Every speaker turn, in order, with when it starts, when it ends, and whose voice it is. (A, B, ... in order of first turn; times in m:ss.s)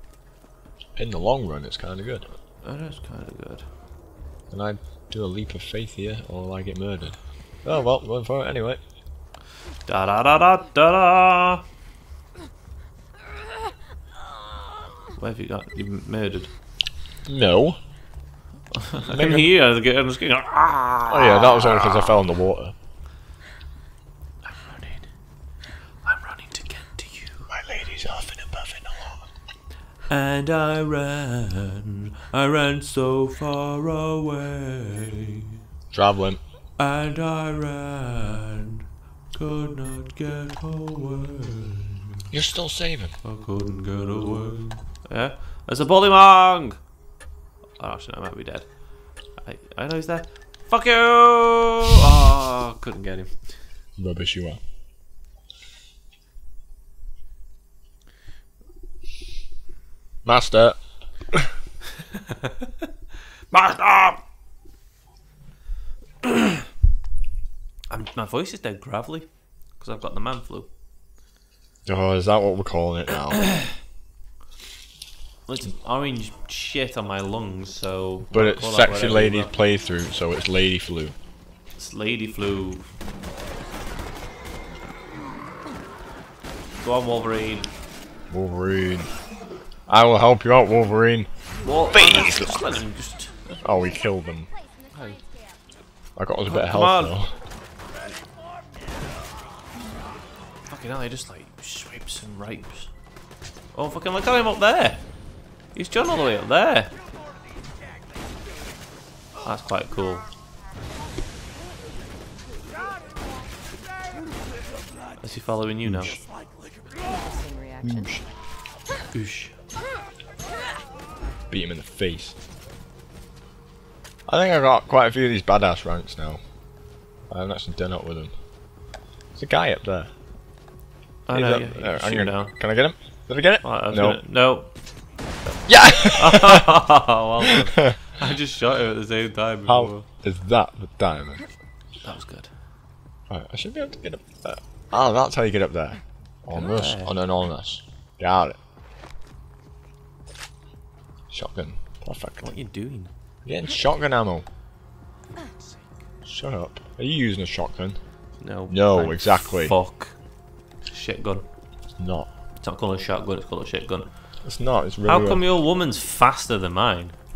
0:01.0-0:02.3 A
0:02.6-0:03.6 B
0:04.5-0:08.8 A
0:09.9-0:11.6 B
0:15.2-0:16.5 B
0:17.2-0:17.8 A
0:18.7-0:22.1 B
0:19.0-0:19.5 A
0:21.1-0:22.7 A
0:24.4-0:25.1 B
0:26.0-0:27.5 B
0:27.5-0:29.2 A
0:30.1-0:35.6 B
0:35.9-0:36.4 A
0:36.8-0:42.2 B
0:42.3-0:43.1 A
0:43.2-0:46.8 B
0:47.8-0:48.7 B
0:49.4-0:53.4 B
0:54.0-0:54.6 A
1:00.2-1:00.8 A
1:02.1-1:02.7 B
1:03.5-1:04.2 B
1:06.2-1:06.5 B
1:07.9-1:09.3 B
1:09.8-1:10.7 B
1:11.8-1:13.4 A
1:15.5-1:19.5 B
1:18.3-1:21.1 A
1:21.8-1:22.9 B
1:26.8-1:27.7 B
1:28.3-1:29.1 A
1:29.9-1:31.3 A
1:31.6-1:33.6 B
1:31.9-1:32.7 A
1:33.6-1:34.5 A
1:34.9-1:35.2 B
1:36.2-1:37.3 A
1:36.5-1:37.2 B
1:40.7-1:42.9 B
1:43.7-1:45.0 B
1:45.7-1:46.9 B
1:49.4-1:50.2 B
1:55.2-1:56.2 B
1:55.8-1:56.2 A
1:57.8-1:58.2 A
1:59.1-1:59.5 B
2:01.5-2:02.3 A
2:04.3-2:06.4 A
2:07.3-2:08.3 A
2:09.4-2:10.1 A
2:11.3-2:12.5 B
2:11.3-2:14.2 A
2:13.6-2:14.7 B
2:15.7-2:16.7 A
2:16.2-2:20.0 B
2:19.7-2:21.5 A
2:22.0-2:22.5 B
2:23.3-2:28.6 A
2:26.5-2:27.1 B
2:31.3-2:32.5 A
2:32.4-2:33.1 B
2:33.4-2:34.4 A
2:36.2-2:38.0 A
2:38.4-2:40.2 B
2:38.7-2:39.8 A
2:40.9-2:41.4 B
2:42.0-2:42.3 A
2:42.6-2:44.1 B
2:44.4-2:45.4 A
2:45.0-2:47.1 B